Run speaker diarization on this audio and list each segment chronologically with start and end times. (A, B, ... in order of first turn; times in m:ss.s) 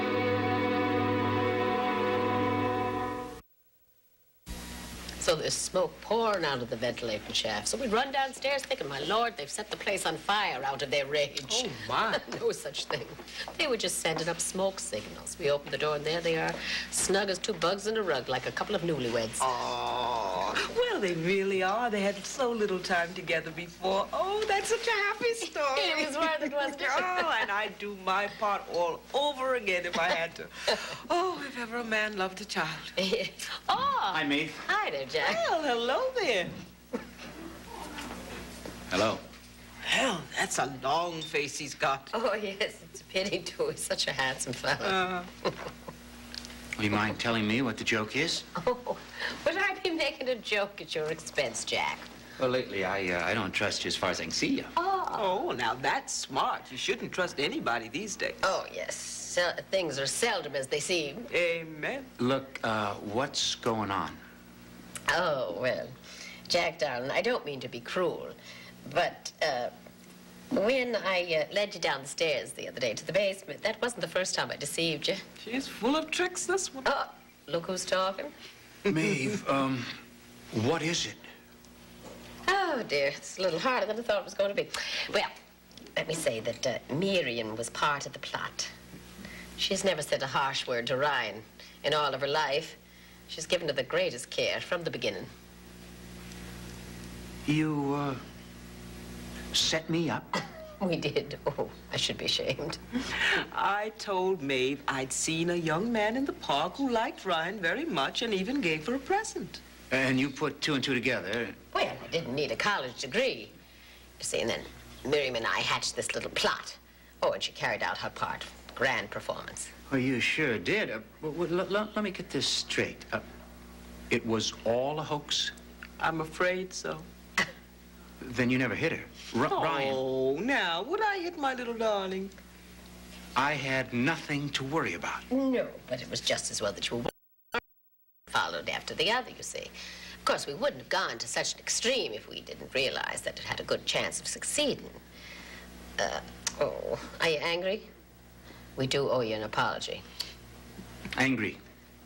0:05.2-0:19.5 A
0:11.5-0:12.2 B
0:19.4-0:33.0 B
0:25.7-0:27.2 A
0:33.0-0:35.4 A
0:34.1-0:34.6 C
0:35.2-0:36.5 B
0:38.9-0:39.2 C
0:39.8-0:42.1 B
0:42.1-0:45.0 A
0:44.8-0:45.3 B
0:46.8-0:48.4 C
0:48.6-0:52.0 A
0:52.4-0:54.7 C
0:54.8-0:55.2 A
0:55.1-0:58.4 B
0:58.4-1:01.3 A
1:01.3-1:02.1 B
1:02.2-1:04.2 C
1:05.1-1:05.9 A
1:06.5-1:09.7 A
1:10.5-1:15.2 A
1:15.4-1:16.9 B
1:16.8-1:18.3 A
1:18.9-1:20.0 C
1:20.5-1:21.2 C
1:22.5-1:25.3 A
1:26.0-1:28.7 A
1:29.6-1:32.8 A
1:33.3-1:35.3 A
1:37.4-1:38.2 C
1:39.5-1:40.3 C
1:40.8-1:42.8 A
1:43.2-1:49.6 B
1:49.9-1:51.6 C
1:51.7-1:53.5 A
1:54.2-1:59.7 A
1:59.9-2:03.2 C
2:04.1-2:05.5 C
2:06.0-2:07.0 B
2:08.2-2:10.0 C
2:09.5-2:12.3 B
2:13.4-2:15.2 C
2:15.3-2:17.1 A
2:18.3-2:19.7 A
2:20.2-2:25.0 A
2:26.0-2:27.9 A
2:28.8-2:30.0 A
2:31.1-2:31.6 C